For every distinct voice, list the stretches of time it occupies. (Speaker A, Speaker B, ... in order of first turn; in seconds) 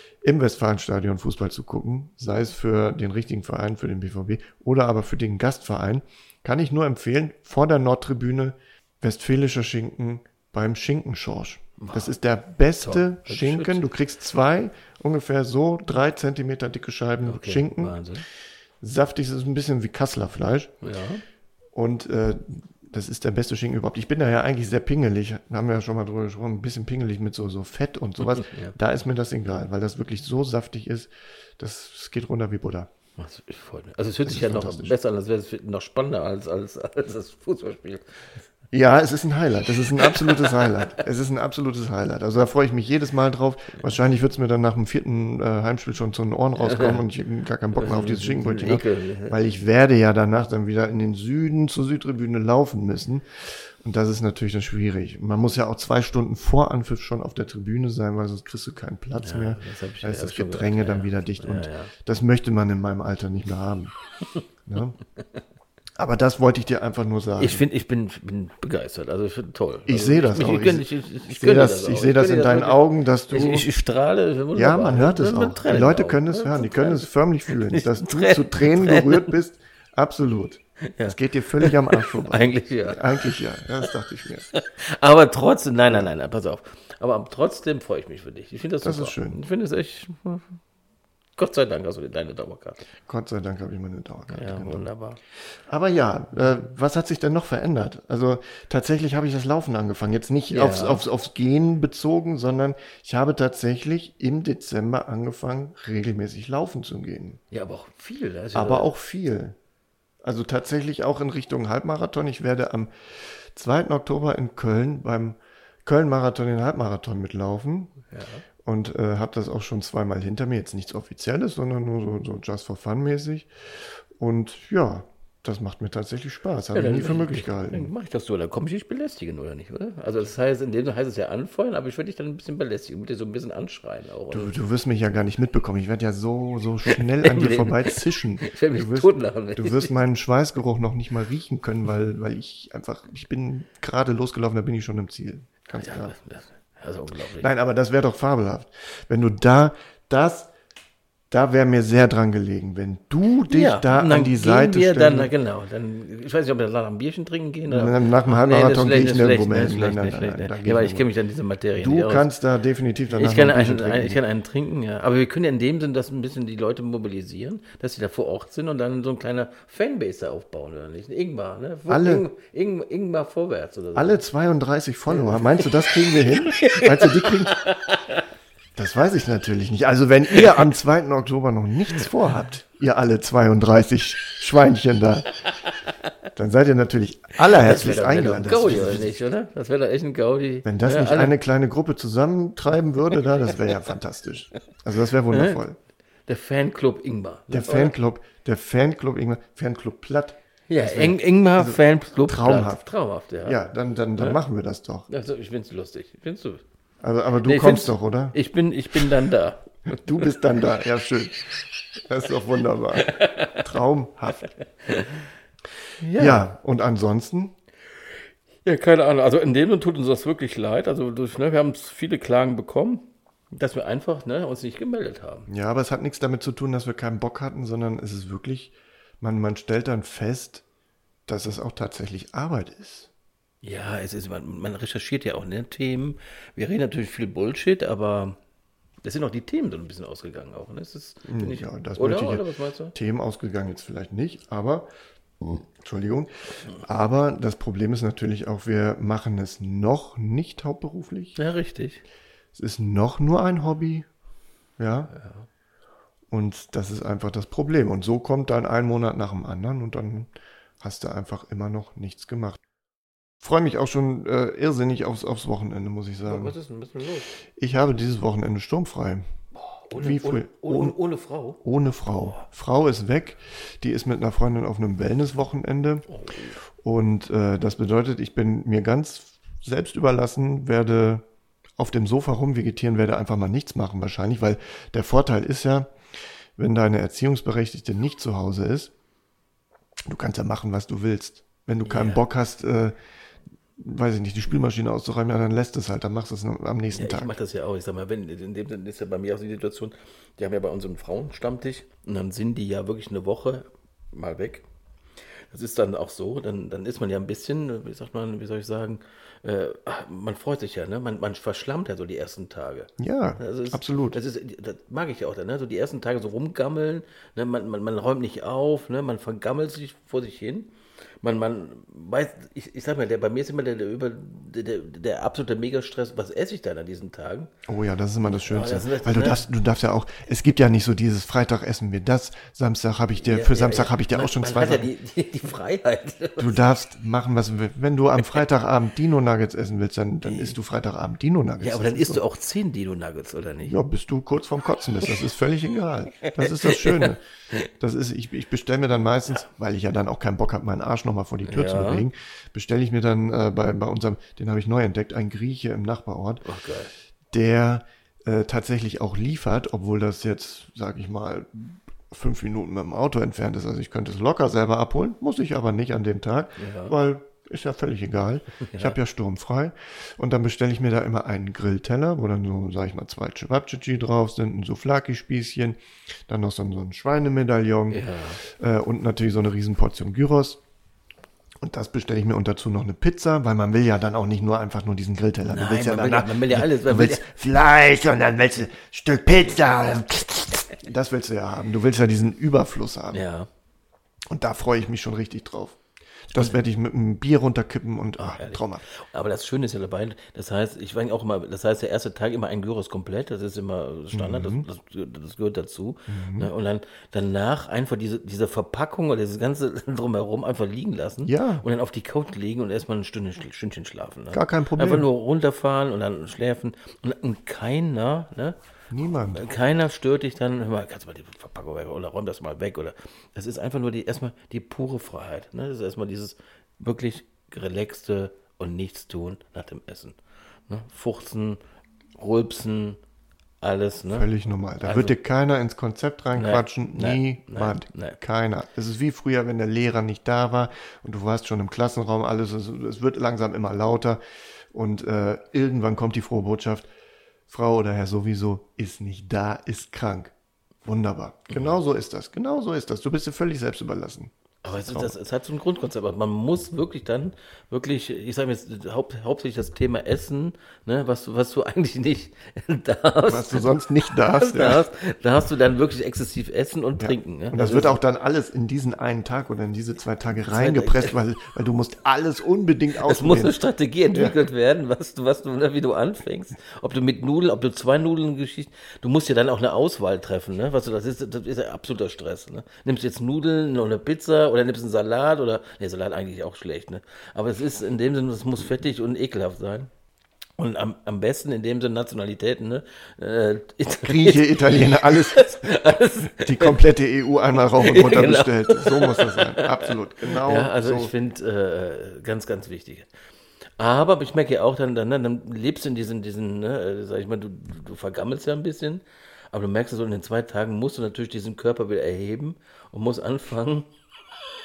Speaker A: 0.2-18.0, 18.8-20.7, 21.7-32.9, 34.2-34.9, 38.7-63.9, 64.7-65.0, 66.0-67.6, 69.9-73.7, 74.5-84.5, 88.8-89.4, 93.0-94.9, 95.7-107.4, 108.5-109.5, 110.2-117.9, 118.6-127.9, 134.3-146.1, 147.4-150.5, 151.3-155.3, 157.7-161.1, 161.8-164.2, 171.9-172.2, 173.9-177.7, 178.8-185.3, 186.3-189.2, 190.6-195.8, 197.5-202.8, 203.4-205.1, 207.0-208.3, 209.9-211.4, 212.0-214.5, 216.2-217.5, 225.5-230.6, 231.3-233.1, 241.2-244.9, 245.4-251.4, 252.5-254.1, 254.8-255.1, 256.3-262.6, 263.4-266.5, 267.6-269.3, 269.9-270.9, 271.6-276.1, 276.8-281.2, 281.8-285.9, 286.6-288.9, 290.1-292.9, 293.8-297.4, 313.0-314.2, 327.7-334.9, 336.4-342.2, 343.6-356.4, 357.3-380.6, 381.6-393.2, 394.3-395.8, 396.3-398.8, 404.1-404.6, 406.1-406.5, 411.2-411.6, 414.3-415.1, 418.9-419.5, 434.1-444.2, 444.7-446.9, 447.5-450.3, 450.8-455.1, 463.3-464.9, 467.0-473.6, 474.1-474.4, 493.9-501.1
Speaker B: 11.8-12.1, 12.8-13.8, 17.2-18.2, 20.8-21.2, 28.2-28.7, 33.2-38.3, 40.0-40.8, 46.6-47.0, 47.8-49.4, 59.2-61.9, 67.4-79.4, 80.8-83.4, 84.5-90.6, 91.4-92.8, 94.3-95.2, 100.5-101.0, 107.5-108.9, 118.1-118.4, 126.7-134.5, 136.9-140.0, 145.8-147.5, 153.5-162.3, 163.1-174.2, 175.1-178.2, 187.4-191.3, 195.3-195.6, 196.3-197.9, 200.7-203.6, 205.1-206.6, 207.4-210.4, 213.0-213.6, 214.9-215.2, 216.0-216.5, 218.6-225.5, 233.6-238.4, 239.0-242.9, 251.3-252.0, 255.1-255.4, 266.2-267.3, 269.5-271.6, 276.1-276.6, 291.8-292.2, 296.9-304.6, 305.5-320.7, 321.2-327.5, 328.2-329.4, 333.2-336.6, 340.2-340.5, 341.6-343.8, 346.3-347.6, 351.4-352.1, 356.4-356.9, 366.6-367.0, 368.6-369.0, 377.9-378.4, 385.5-387.3, 393.1-393.5, 398.2-430.2, 430.7-431.6, 432.2-433.0, 433.6-434.3, 434.8-435.1, 436.3-438.2, 451.5-451.7, 454.6-468.0, 470.5-471.2, 473.0-489.9, 490.6-496.8, 497.7-503.1, 503.8-513.9